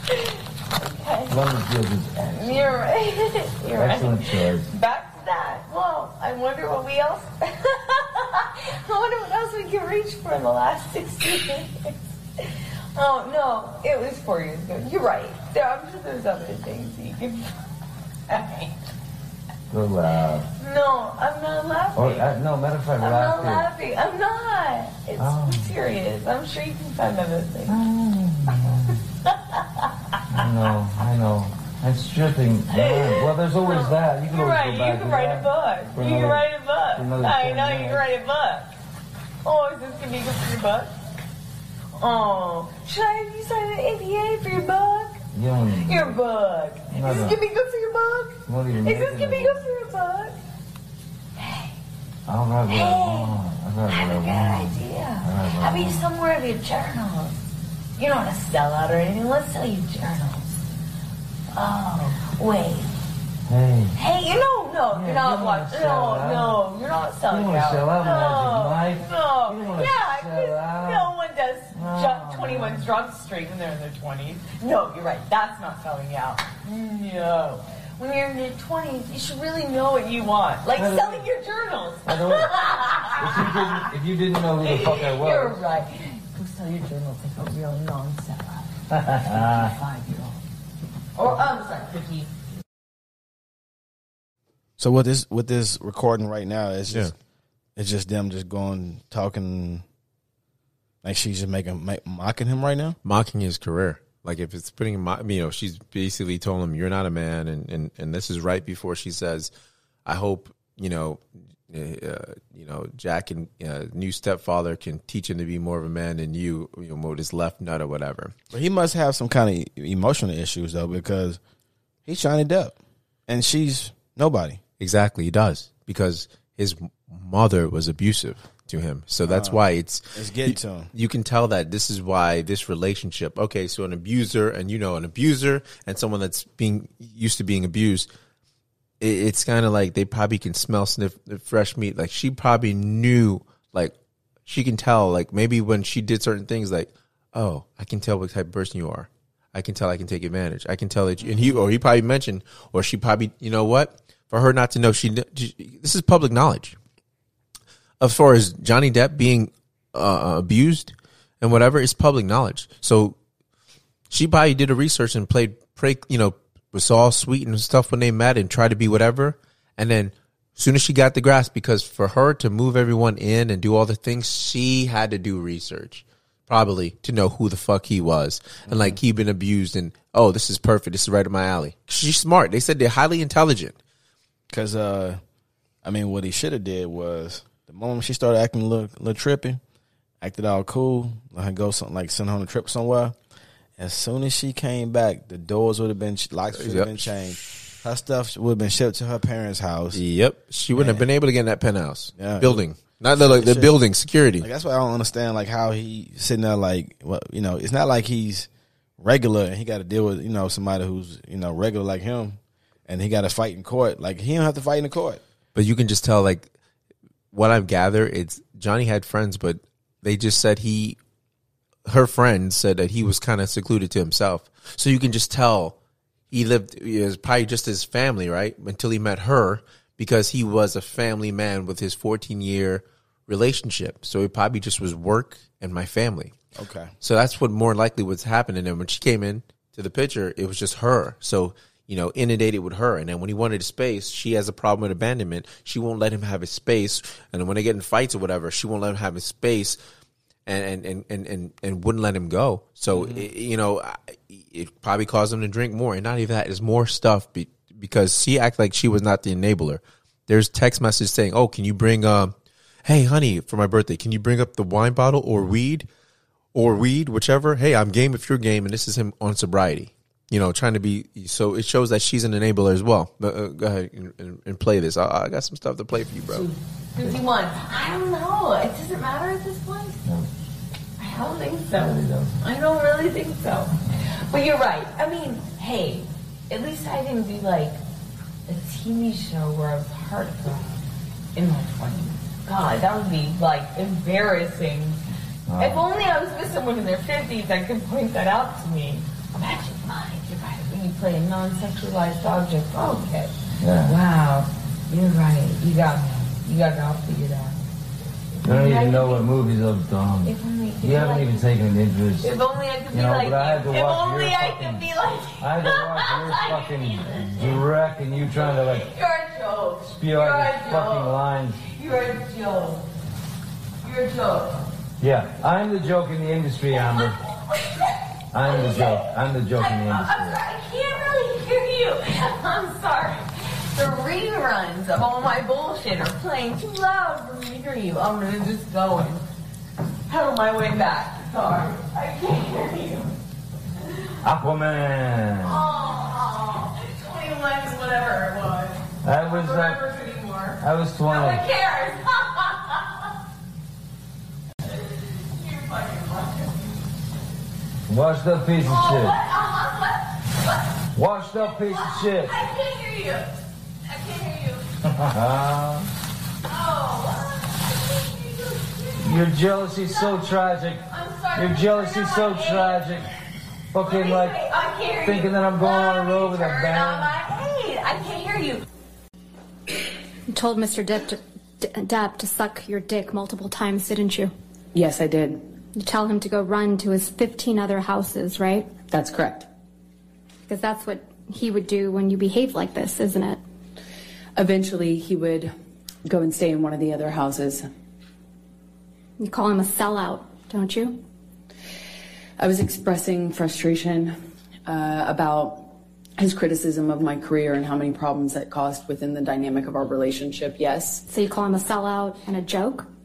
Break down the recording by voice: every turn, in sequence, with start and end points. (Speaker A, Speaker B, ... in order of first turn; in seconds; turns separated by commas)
Speaker A: 0.3-1.5, Speaker B: 1.3-2.9, Speaker A: 2.2-17.6, Speaker B: 3.7-4.7, Speaker A: 18.3-18.7, Speaker B: 19.7-20.5, Speaker A: 20.6-22.4, Speaker B: 22.0-23.7, Speaker A: 23.0-27.8, Speaker B: 25.2-25.8, Speaker B: 27.7-29.0, Speaker A: 29.3-29.9, Speaker B: 30.3-38.0, Speaker A: 32.7-38.7, Speaker A: 39.5-41.0, Speaker A: 42.0-50.4, Speaker B: 45.3-46.2, Speaker B: 46.9-47.4, Speaker B: 48.5-49.7, Speaker A: 51.4-51.7, Speaker B: 52.3-56.1, Speaker A: 52.6-57.4, Speaker A: 58.0-60.6, Speaker A: 61.5-62.9, Speaker B: 63.5-64.0, Speaker A: 63.9-90.4, Speaker B: 64.9-66.6, Speaker B: 67.3-71.1, Speaker B: 71.7-72.9, Speaker B: 80.7-81.3, Speaker B: 82.1-85.6, Speaker B: 88.9-89.7, Speaker A: 91.2-92.3, Speaker C: 94.8-97.1, Speaker C: 97.8-99.8, Speaker C: 101.0-103.0, Speaker D: 103.0-109.5, Speaker D: 110.1-118.3, Speaker C: 118.5-121.4, Speaker C: 122.1-122.8, Speaker C: 123.3-124.6, Speaker D: 124.8-138.1, Speaker C: 129.2-129.6, Speaker C: 130.1-130.9, Speaker D: 139.0-143.9, Speaker D: 144.5-156.8, Speaker D: 158.0-163.2, Speaker D: 164.1-183.8, Speaker C: 178.7-179.0, Speaker C: 184.5-185.2, Speaker C: 185.8-189.6, Speaker C: 190.2-193.2, Speaker C: 193.8-200.0, Speaker D: 196.5-197.2, Speaker D: 199.9-204.5, Speaker C: 200.8-201.0, Speaker C: 202.2-202.6, Speaker C: 203.1-203.8, Speaker C: 204.4-208.5, Speaker C: 209.0-215.2, Speaker D: 215.6-216.5, Speaker D: 217.3-221.0, Speaker D: 221.9-225.8, Speaker D: 226.3-236.4, Speaker C: 236.6-236.9, Speaker D: 237.0-249.8, Speaker D: 250.5-265.9, Speaker D: 266.5-276.5, Speaker A: 276.3-280.0, Speaker A: 281.0-287.8, Speaker A: 288.5-290.8, Speaker A: 291.4-295.0, Speaker B: 295.5-295.9, Speaker A: 295.6-307.6, Speaker B: 303.6-304.0, Speaker A: 308.4-309.3, Speaker B: 308.4-312.3, Speaker A: 310.2-311.5, Speaker A: 312.2-322.9, Speaker B: 312.9-314.9, Speaker B: 315.4-318.9, Speaker B: 319.8-321.6, Speaker A: 323.8-324.7, Speaker B: 325.0-327.2, Speaker A: 326.7-339.2, Speaker B: 328.3-330.4, Speaker A: 340.1-343.1, Speaker B: 344.2-345.6, Speaker A: 345.4-352.9, Speaker B: 349.0-349.8, Speaker B: 350.6-351.4, Speaker A: 354.7-356.9, Speaker B: 357.9-359.1, Speaker A: 358.6-364.7, Speaker B: 360.9-362.4, Speaker B: 364.9-365.9, Speaker A: 366.5-373.0, Speaker B: 369.0-373.1, Speaker B: 373.7-374.4, Speaker A: 373.8-378.6, Speaker B: 375.0-377.1, Speaker E: 380.3-384.3, Speaker F: 384.7-385.5, Speaker E: 385.8-388.7, Speaker F: 388.9-389.5, Speaker E: 390.5-393.4, Speaker F: 394.4-395.5, Speaker F: 396.1-397.7, Speaker E: 399.2-401.0, Speaker F: 402.4-411.0, Speaker E: 411.1-412.9